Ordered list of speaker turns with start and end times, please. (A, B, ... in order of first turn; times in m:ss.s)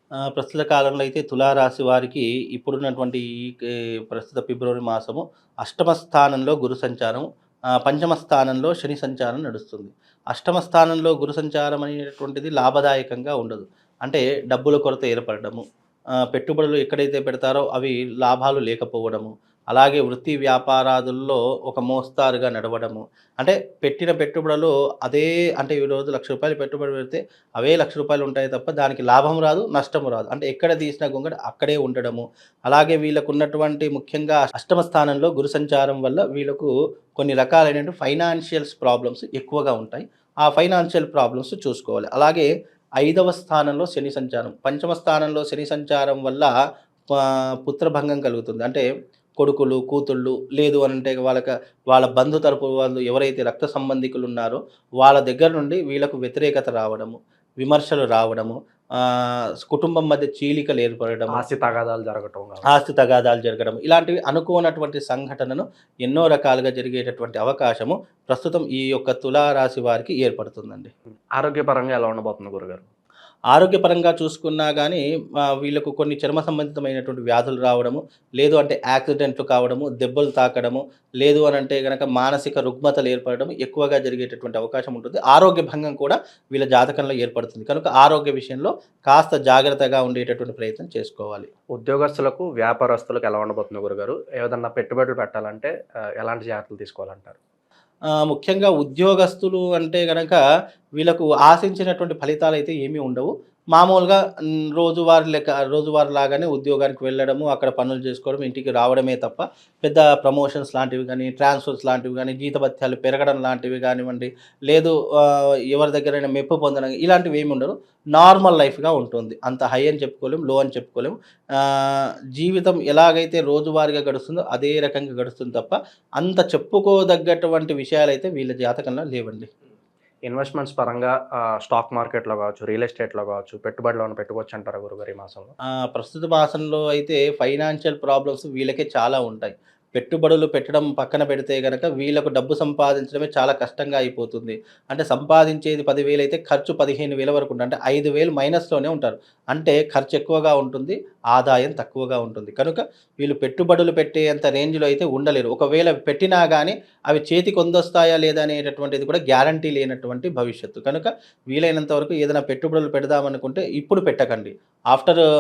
0:00.4-0:07.2 A
0:07.8-0:15.6 A
0:16.3-0:42.5 A
0:43.0-0:46.5 A
0:47.2-0:48.9 A
0:49.4-0:58.6 A
0:59.6-1:01.4 A
1:01.3-1:02.7 B
1:02.7-1:10.9 A
1:11.4-1:12.9 B
1:13.5-1:15.0 A
1:15.6-1:31.5 A
1:31.8-1:37.4 B
1:38.2-1:40.4 A
1:41.0-1:44.2 A
1:44.8-2:09.5 A
2:10.3-2:15.5 B
2:15.9-2:45.2 A